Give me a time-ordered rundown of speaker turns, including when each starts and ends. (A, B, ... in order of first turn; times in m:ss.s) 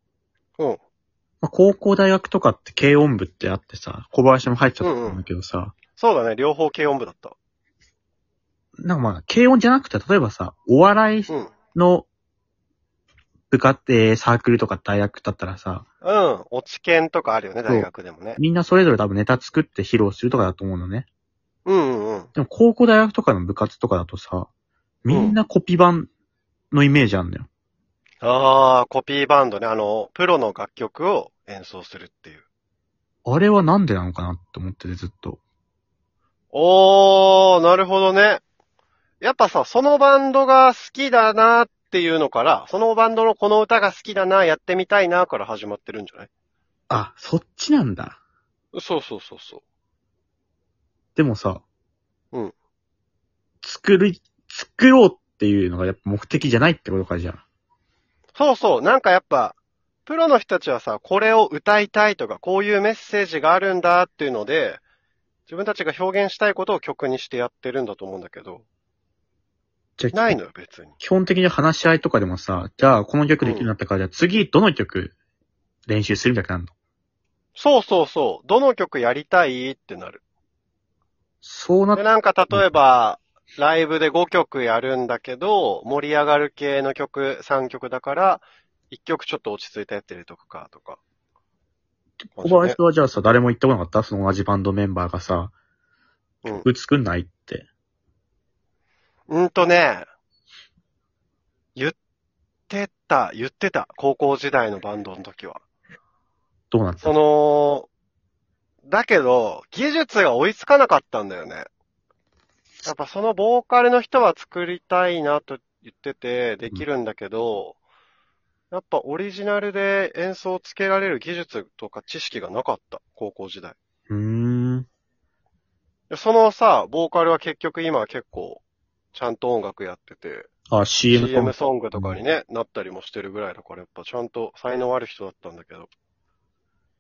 0:01.4-0:05.8 A
0:04.8-0:05.2 B
0:06.0-0:07.4 B
0:08.8-0:12.1 A
0:11.3-0:11.5 B
0:13.5-0:15.8 A
0:16.0-0:18.4 B
0:17.7-0:21.1 A
0:21.7-0:22.3 B
0:22.4-0:24.5 A
0:25.0-0:26.1 A
0:25.1-0:25.4 B
0:26.7-0:27.5 A
0:28.2-0:32.4 B
0:33.3-0:35.4 A
0:36.5-0:38.4 B
0:39.2-0:46.3 B
0:46.9-0:48.2 A
0:48.7-0:49.6 B
0:51.2-0:51.6 A
0:53.6-0:57.4 A
0:58.4-1:04.8 B
1:05.5-1:08.6 B
1:10.0-1:10.4 A
1:10.1-1:11.0 B
1:11.0-1:15.1 A
1:13.4-1:13.7 B
1:15.9-1:16.7 A
1:17.6-1:20.2 B
1:21.4-1:22.8 A
1:22.0-1:31.0 B
1:32.2-1:35.5 A
1:32.4-1:32.8 B
1:36.5-1:37.7 A
1:39.3-1:40.1 B
1:42.7-1:45.6 B
1:46.7-1:47.2 A
1:47.0-1:47.9 B
1:48.8-1:51.7 B
1:52.8-1:57.8 B
1:58.7-2:03.8 B
2:04.1-2:04.9 A
2:06.1-2:08.6 B
2:09.1-2:10.5 B
2:10.7-2:12.2 A
2:11.1-2:15.9 B